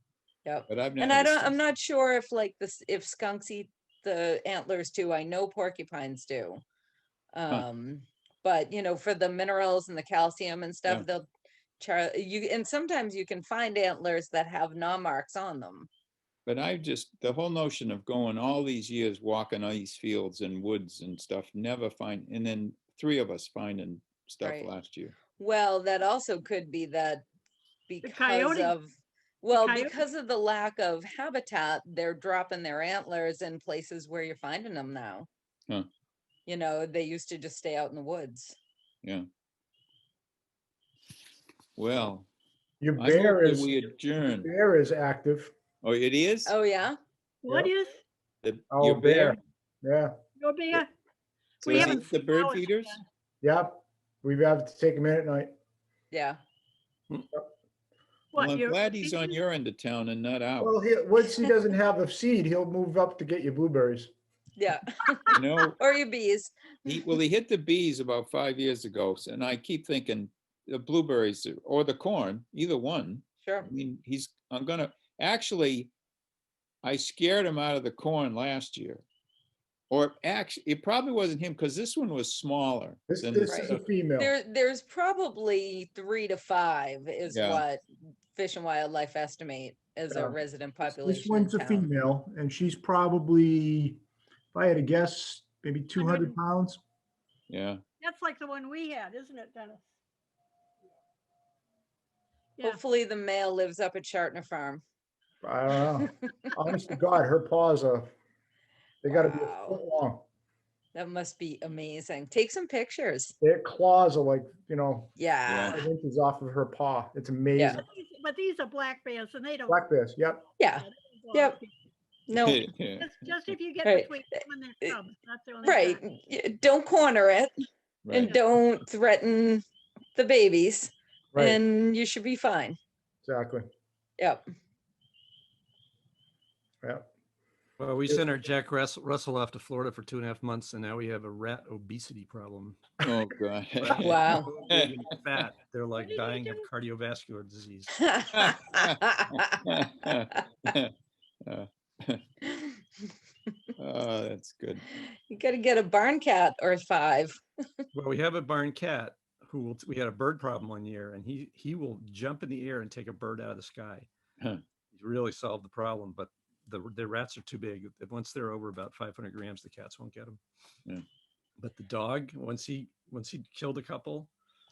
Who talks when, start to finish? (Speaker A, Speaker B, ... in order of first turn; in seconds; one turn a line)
Speaker A: 0.5-6.6
Speaker B: 0.7-1.6
Speaker A: 7.3-11.3
Speaker A: 11.8-15.9
Speaker B: 16.5-25.1
Speaker A: 24.4-24.7
Speaker A: 25.4-27.2
Speaker A: 27.9-28.9
Speaker C: 28.0-28.8
Speaker A: 29.4-35.3
Speaker C: 29.5-30.0
Speaker A: 36.5-38.6
Speaker B: 41.8-42.3
Speaker D: 42.8-45.5
Speaker B: 43.0-44.5
Speaker B: 45.8-46.5
Speaker A: 46.5-47.0
Speaker C: 47.4-48.0
Speaker B: 48.4-49.4
Speaker D: 48.7-50.1
Speaker C: 50.4-50.9
Speaker C: 51.6-53.0
Speaker B: 51.6-53.0
Speaker D: 53.4-55.5
Speaker A: 56.1-56.4
Speaker C: 58.3-59.4
Speaker B: 58.4-60.8
Speaker D: 60.6-64.1
Speaker A: 64.6-67.0
Speaker B: 65.3-65.8
Speaker B: 66.9-75.9
Speaker A: 73.4-73.7
Speaker B: 76.8-79.0
Speaker B: 79.9-83.8
Speaker D: 83.1-84.3
Speaker A: 83.5-87.8
Speaker B: 87.3-87.6
Speaker A: 88.3-91.9
Speaker D: 90.1-94.0
Speaker D: 94.5-96.8
Speaker C: 96.0-96.4
Speaker B: 97.5-97.8
Speaker C: 98.0-99.9
Speaker A: 102.6-104.8
Speaker D: 105.4-108.1
Speaker D: 109.0-110.2
Speaker A: 109.1-109.8
Speaker A: 110.9-113.3
Speaker D: 113.4-115.2
Speaker A: 115.2-115.8
Speaker B: 115.5-115.8
Speaker D: 115.7-117.8
Speaker A: 117.6-117.8
Speaker C: 117.8-119.8
Speaker D: 119.7-120.5
Speaker A: 120.6-121.6
Speaker C: 120.6-121.7
Speaker A: 122.3-122.6
Speaker B: 122.3-123.2
Speaker C: 123.0-126.0
Speaker A: 123.8-124.1
Speaker A: 125.6-127.5
Speaker B: 128.1-128.4
Speaker A: 128.1-129.6
Speaker A: 130.2-132.8
Speaker D: 131.3-131.6
Speaker D: 133.2-133.7
Speaker E: 137.8-142.9
Speaker B: 143.0-145.0
Speaker E: 143.8-148.2
Speaker A: 143.9-144.5
Speaker C: 146.0-146.7
Speaker A: 148.0-149.6
Speaker B: 148.3-150.9
Speaker B: 151.4-152.2
Speaker A: 152.5-152.8
Speaker B: 153.8-154.8
Speaker A: 155.3-157.4
Speaker E: 157.9-164.1
Speaker E: 164.9-170.4
Speaker E: 171.6-174.3